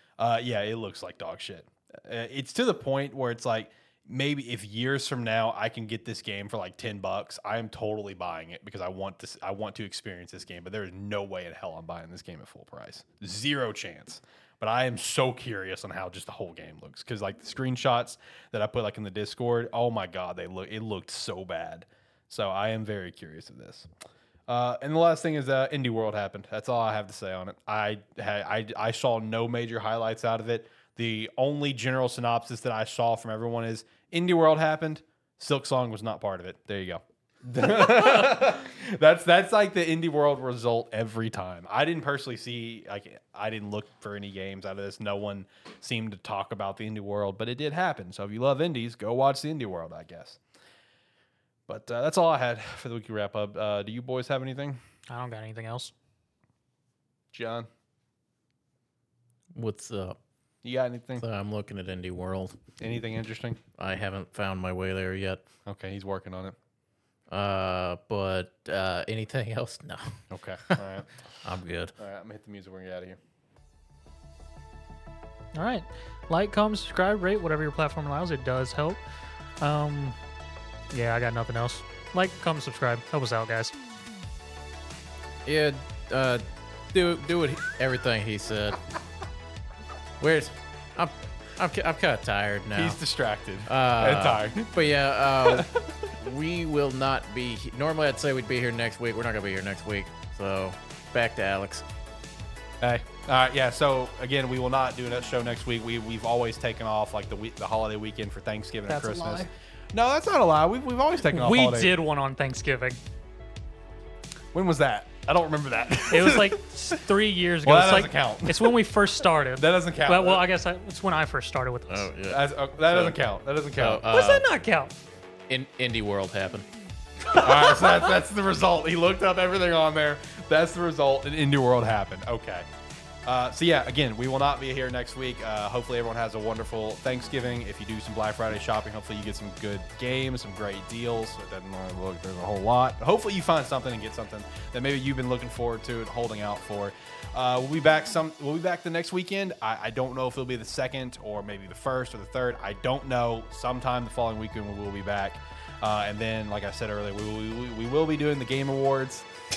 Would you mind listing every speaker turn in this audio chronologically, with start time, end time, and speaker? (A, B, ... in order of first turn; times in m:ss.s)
0:00.2-0:23.9 A
0:24.5-0:50.4 A
0:51.7-0:54.8 A
0:55.1-0:55.9 B
0:57.3-0:57.7 A
0:59.5-1:00.2 C
1:00.6-1:01.2 A
1:01.2-1:02.6 C
1:02.8-1:03.6 A
1:03.7-1:05.4 C
1:05.6-1:06.5 A
1:07.3-1:10.2 C
1:10.3-1:11.1 A
1:11.4-1:11.9 C
1:12.0-1:13.2 A
1:15.5-1:19.0 B
1:19.6-1:20.2 B
1:20.9-1:23.8 B
1:25.4-1:28.8 C
1:30.2-1:33.0 C
1:32.8-1:34.7 A
1:33.6-1:41.8 C
1:35.4-1:36.1 A
1:42.8-1:52.0 A
1:48.9-1:49.5 B
1:51.2-1:53.0 B
1:54.5-1:57.0 A
1:56.1-2:02.1 B
1:57.6-1:58.8 A
1:59.6-2:00.4 A
2:01.9-2:03.2 C
2:02.3-2:04.1 A
2:03.8-2:04.5 C
2:04.0-2:05.0 B
2:05.5-2:06.7 C
2:07.3-2:07.8 B
2:07.3-2:12.6 A
2:13.2-2:39.3 A